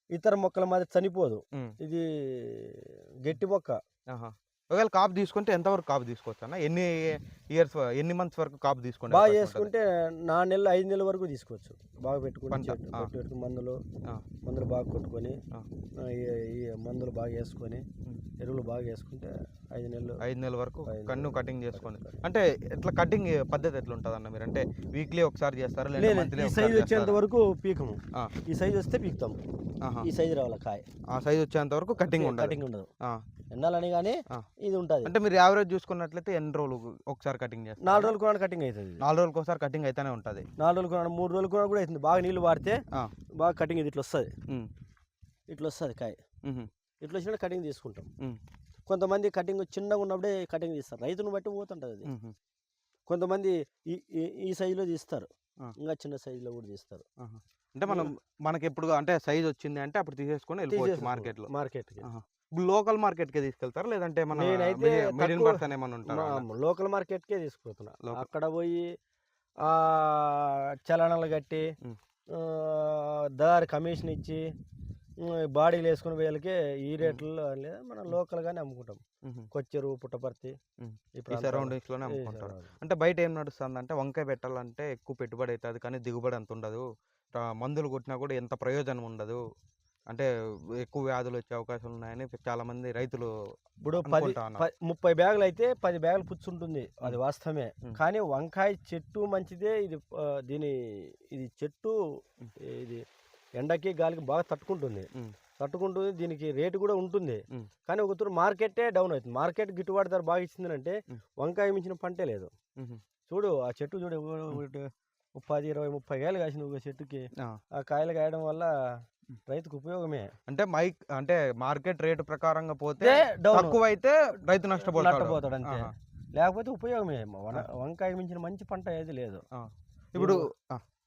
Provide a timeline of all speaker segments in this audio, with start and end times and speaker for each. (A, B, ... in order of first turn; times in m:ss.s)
0:00.2-0:03.8 A
0:04.1-0:09.7 B
0:09.1-0:13.8 A
0:12.5-0:13.1 B
0:14.5-0:15.4 A
0:16.0-0:17.8 A
0:18.4-0:20.2 A
0:20.2-0:27.2 B
0:20.9-0:22.2 A
0:26.0-0:29.4 A
0:29.8-0:30.1 B
0:30.0-0:30.8 A
0:31.1-0:33.2 B
0:32.0-0:32.9 A
0:33.5-0:35.1 A
0:35.0-0:38.1 B
0:37.8-0:39.0 A
0:39.0-0:40.5 B
0:40.6-0:42.8 A
0:43.4-0:44.3 A
0:45.5-0:46.2 A
0:46.4-0:46.7 B
0:47.0-0:48.1 A
0:48.9-0:52.1 A
0:52.1-0:52.4 B
0:53.1-0:57.0 A
0:57.2-1:01.5 B
1:00.7-1:02.1 A
1:02.0-1:06.4 B
1:04.3-1:08.9 A
1:09.6-1:11.7 A
1:12.3-1:14.4 A
1:15.2-1:19.0 A
1:19.2-1:19.5 B
1:19.5-1:20.6 A
1:20.8-1:26.8 B
1:21.2-1:22.7 A
1:27.4-1:29.4 B
1:30.8-1:33.3 B
1:33.8-1:42.0 A
1:34.0-1:34.6 B
1:42.6-1:43.0 A
1:43.6-1:52.5 A
1:52.8-1:53.0 B
1:53.3-1:58.7 A
1:59.5-2:00.3 A
2:00.5-2:05.9 B
2:03.0-2:03.8 A
2:04.8-2:09.4 A
2:09.5-2:10.8 B
2:10.2-2:10.4 A